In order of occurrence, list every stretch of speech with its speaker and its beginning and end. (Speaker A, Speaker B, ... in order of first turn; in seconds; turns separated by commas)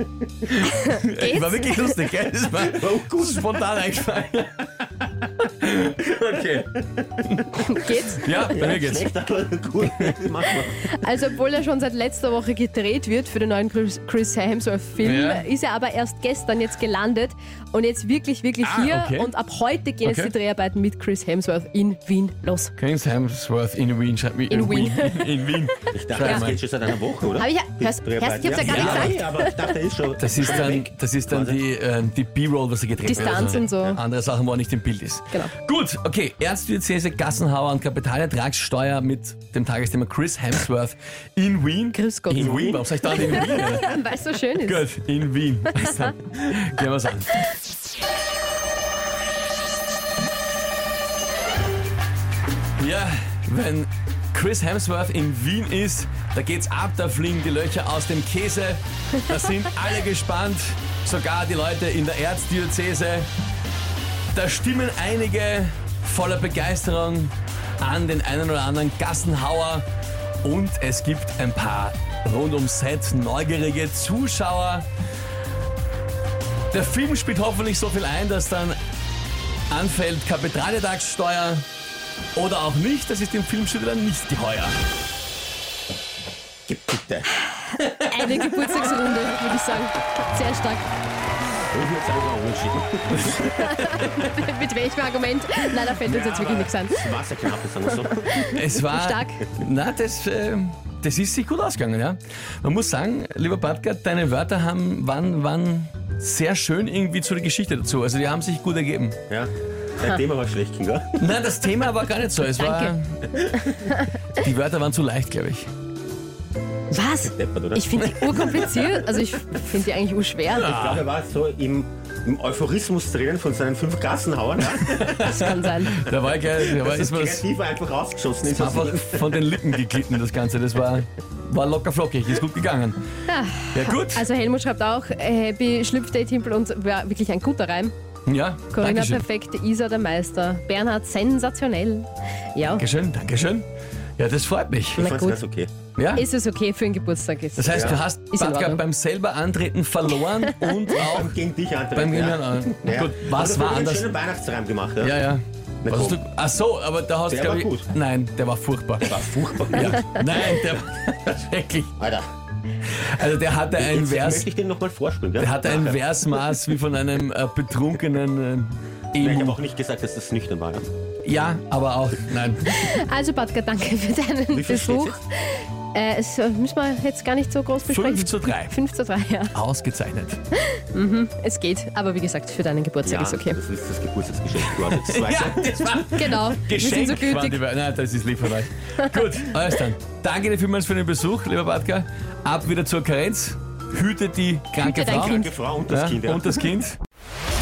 Speaker A: 0.4-9.1, Speaker B: 0.8-2.0, Speaker C: 2.6-3.5, Speaker B: 7.5-8.7, Speaker C: 8.5-10.9, Speaker A: 9.9-10.1, Speaker B: 10.5-22.7, Speaker A: 15.0-15.5, Speaker A: 18.6-19.3, Speaker A: 20.0-20.3, Speaker A: 22.8-26.6, Speaker B: 24.5-25.4, Speaker C: 25.9-31.6, Speaker B: 26.2-26.6, Speaker B: 27.4-29.7, Speaker A: 28.6-29.2, Speaker A: 30.2-44.0, Speaker B: 33.0-34.0, Speaker C: 33.1-34.0, Speaker B: 41.9-44.8, Speaker C: 42.3-42.8, Speaker A: 44.6-47.5, Speaker A: 52.8-63.3, Speaker A: 64.3-69.8, Speaker A: 70.4-74.9, Speaker A: 76.7-78.8, Speaker A: 79.7-81.6, Speaker A: 82.3-84.7, Speaker C: 86.7-87.3, Speaker A: 87.8-88.5, Speaker B: 88.0-90.9, Speaker C: 91.7-93.5, Speaker A: 93.1-94.1, Speaker B: 93.4-97.2, Speaker C: 96.0-98.5, Speaker B: 98.0-99.5, Speaker A: 98.5-109.2, Speaker C: 109.3-111.2, Speaker A: 111.2-115.7, Speaker B: 112.6-112.9, Speaker B: 116.9-120.8, Speaker C: 117.3-118.1, Speaker A: 118.0-119.0, Speaker A: 120.5-121.0, Speaker C: 120.5-125.3, Speaker A: 124.7-127.5, Speaker B: 125.1-126.0, Speaker C: 126.4-129.4, Speaker A: 128.4-133.0, Speaker B: 133.3-137.9, Speaker A: 133.7-134.2, Speaker A: 138.2-139.2, Speaker B: 138.7-142.8, Speaker A: 142.8-143.6, Speaker A: 144.2-145.1, Speaker C: 145.0-145.7, Speaker B: 145.0-145.4, Speaker A: 146.0-146.2, Speaker B: 146.1-148.8, Speaker A: 147.6-151.3, Speaker C: 147.7-148.0, Speaker B: 150.4-150.9, Speaker C: 150.9-155.2, Speaker A: 151.9-154.1, Speaker A: 155.0-161.9, Speaker C: 155.8-156.2, Speaker C: 157.3-157.9, Speaker C: 159.0-160.1, Speaker C: 162.0-162.3, Speaker A: 163.0-164.5, Speaker C: 163.7-166.0, Speaker A: 165.4-169.6, Speaker C: 169.2-170.9, Speaker A: 171.2-173.0, Speaker B: 172.7-179.5, Speaker C: 174.5-175.2, Speaker A: 177.9-178.8, Speaker A: 179.5-180.4, Speaker B: 180.5-183.6, Speaker C: 183.0-186.0, Speaker A: 184.7-197.0, Speaker B: 186.0-187.6, Speaker B: 194.8-195.5, Speaker C: 195.1-196.7